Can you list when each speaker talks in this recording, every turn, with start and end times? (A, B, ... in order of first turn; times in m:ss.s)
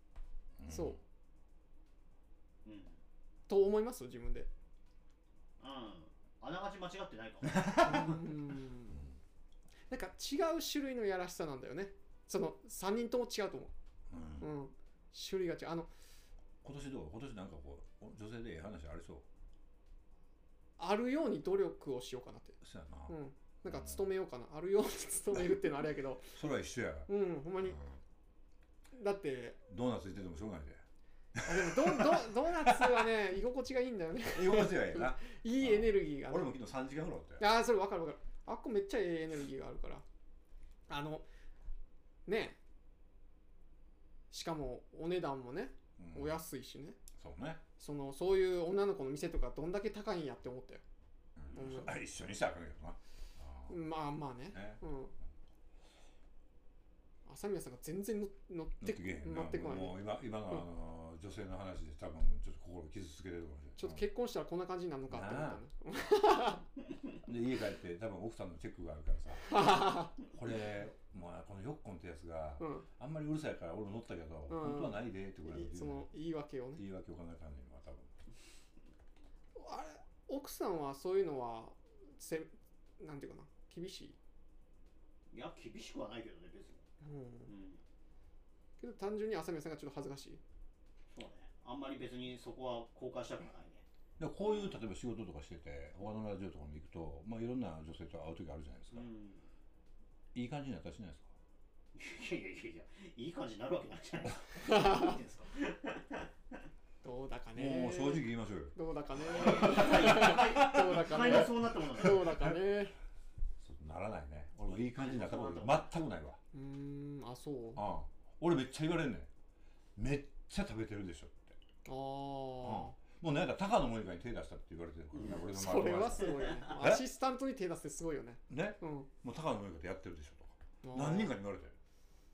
0:00.6-0:01.0 A
0:00.7-0:01.0 B
0:02.6-0:03.0 C
0:03.5-0:04.5 B
0:05.6-0:08.2 C
0:07.4-0:08.2 A
0:07.8-0:09.0 B
0:08.9-0:09.2 A
0:09.9-0:13.7 B
0:14.1-0:14.5 A
0:14.4-0:15.9 B
0:16.6-0:19.2 A
0:20.8-0:26.4 B
0:22.6-0:24.0 A
0:26.3-0:27.1 A
0:27.1-0:27.8 B
0:27.7-0:28.0 A
0:28.9-0:29.6 B
0:29.7-0:30.8 A
0:31.4-0:33.1 A
0:31.4-0:36.6 B
0:34.2-0:37.4 A
0:37.4-0:40.0 B
0:40.9-0:41.2 B
0:42.2-0:42.6 B
0:44.3-0:47.0 B
0:46.0-0:46.4 A
0:47.2-0:47.6 A
0:47.8-0:50.8 B
0:51.4-0:53.8 A
0:51.5-0:51.9 B
0:53.7-0:55.1 B
0:54.5-0:54.8 A
0:57.2-1:00.0 B
0:58.8-1:04.0 A
1:03.8-1:06.6 B
1:05.1-1:05.6 A
1:07.2-1:09.6 A
1:09.5-1:10.2 B
1:10.2-1:16.1 A
1:12.6-1:12.9 B
1:14.5-1:16.8 B
1:16.8-1:18.1 A
1:19.6-1:24.2 B
1:25.3-1:26.8 C
1:27.0-1:27.5 B
1:27.4-1:27.8 C
1:28.8-1:30.4 B
1:31.1-1:33.8 C
1:34.2-1:39.1 A
1:34.4-1:34.7 C
1:38.9-1:39.4 C
1:40.3-1:41.3 A
1:41.9-1:46.3 C
1:44.6-1:45.2 B
1:47.0-1:53.0 B
1:47.5-1:51.4 A
1:49.3-1:52.3 C
1:53.6-1:56.4 A
1:54.7-1:55.9 C
1:56.5-1:57.8 B
1:57.7-1:59.3 A
2:00.0-2:01.6 A
2:01.8-2:02.9 B
2:02.6-2:07.0 A
2:05.4-2:09.1 B
2:06.4-2:06.7 C
2:08.5-2:11.8 A
2:10.8-2:11.4 B